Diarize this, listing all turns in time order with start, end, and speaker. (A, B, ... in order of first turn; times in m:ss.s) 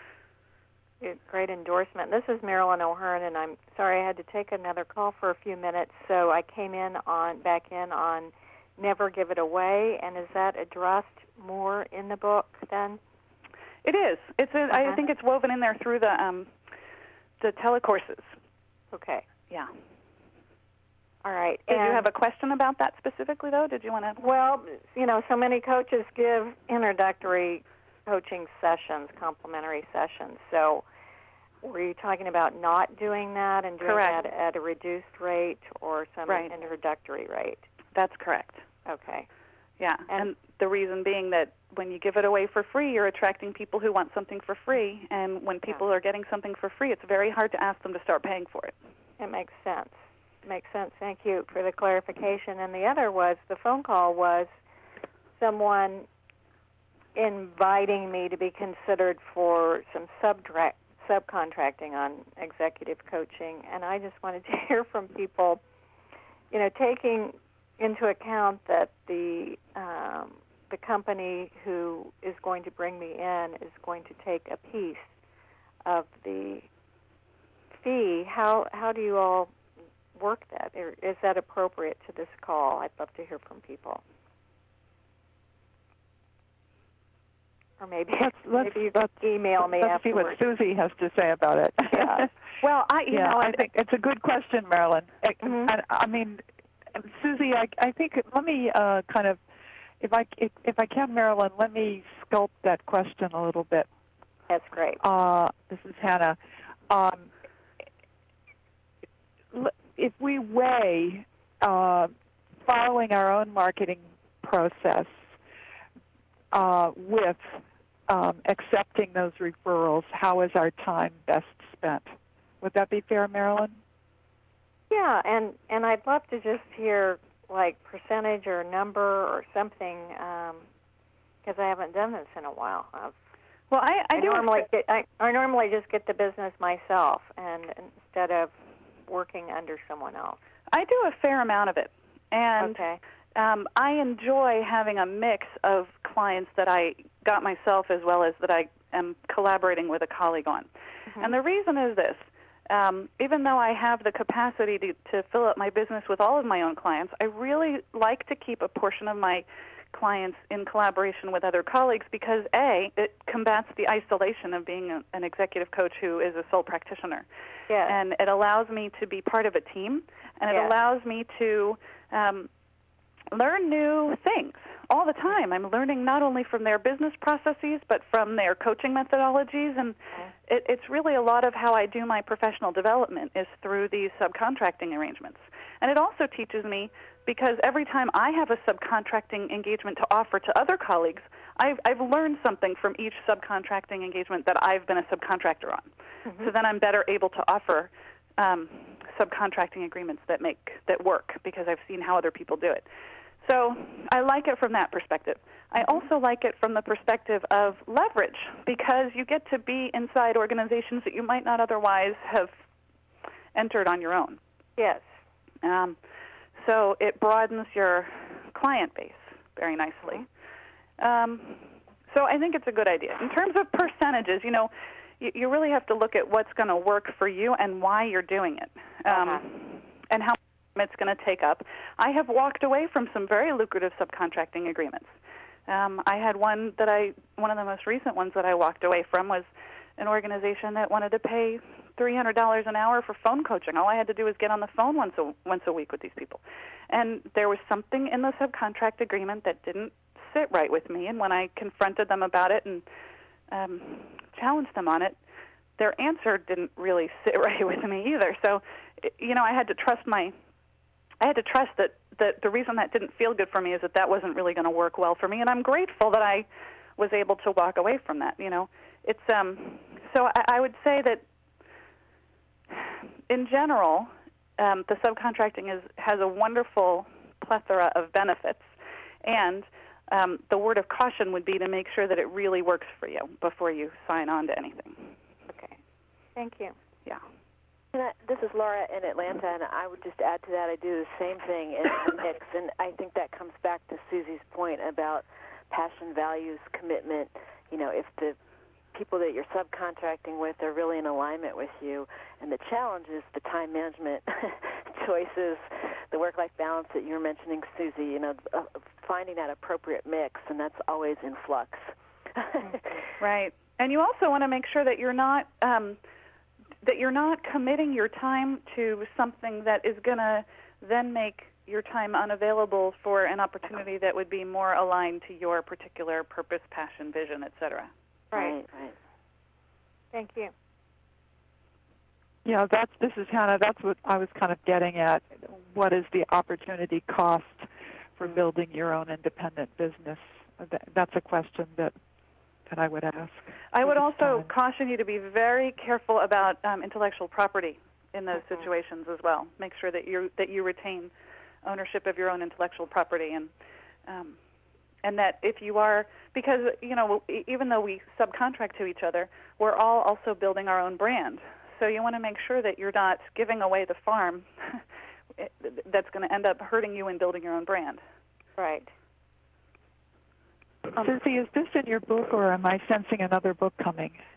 0:01.0-0:13.0 A
0:13.8-0:16.5 B
0:14.7-0:15.0 A
0:17.4-0:18.3 B
0:18.9-0:19.3 A
0:21.2-0:22.1 A
0:21.7-0:24.2 B
0:24.2-0:30.8 A
0:31.6-0:37.6 A
0:33.8-0:34.2 B
0:36.3-0:36.5 B
0:38.0-0:38.6 B
0:38.9-0:39.3 A
0:39.8-0:48.7 B
0:49.2-0:54.5 A
0:55.4-0:56.1 A
0:57.2-1:05.6 A
1:06.5-1:15.1 A
1:15.8-1:16.7 A
1:17.8-1:19.5 A
1:20.2-1:24.0 A
1:27.8-1:30.4 A
1:28.2-1:32.3 C
1:32.0-1:32.2 A
1:32.6-1:33.7 B
1:33.1-1:39.4 C
1:35.4-1:35.7 A
1:40.0-1:43.9 C
1:44.5-1:45.0 A
1:45.0-1:46.4 C
1:46.9-1:47.3 C
1:49.5-1:52.1 C
1:52.6-1:55.3 C
1:56.5-1:57.5 C
1:58.1-2:03.8 C
2:04.9-2:10.6 A
2:11.4-2:13.1 A
2:13.7-2:14.5 B
2:14.2-2:18.5 A
2:19.1-2:20.4 A
2:20.7-2:22.8 B
2:22.6-2:23.0 A
2:23.4-2:47.3 B
2:47.7-2:48.0 A
2:47.8-2:52.5 B
2:53.3-3:22.9 B
3:23.4-3:32.5 B
3:33.6-3:34.4 B
3:34.8-3:35.0 A
3:35.6-3:36.0 B
3:36.6-3:40.3 B
3:41.0-3:55.1 B
3:49.1-3:49.4 A
3:55.7-4:12.8 B
4:13.5-4:15.2 B
4:15.8-4:20.3 B
4:21.2-4:31.2 B
4:32.7-4:38.7 B
4:39.2-4:45.2 B
4:45.5-4:45.8 A
4:46.4-4:46.8 A
4:47.9-4:58.4 D
4:58.9-5:13.0 D
5:13.2-5:16.0 B
5:16.8-5:27.9 B
5:28.3-5:29.0 D
5:30.1-5:30.5 A
5:32.4-5:41.9 C
5:42.7-5:44.5 C
5:43.7-5:51.1 B
5:51.6-5:53.5 B
5:54.1-5:54.4 B
5:55.0-6:04.8 B
6:05.4-6:08.0 B
6:08.6-6:08.9 A
6:11.0-6:14.2 C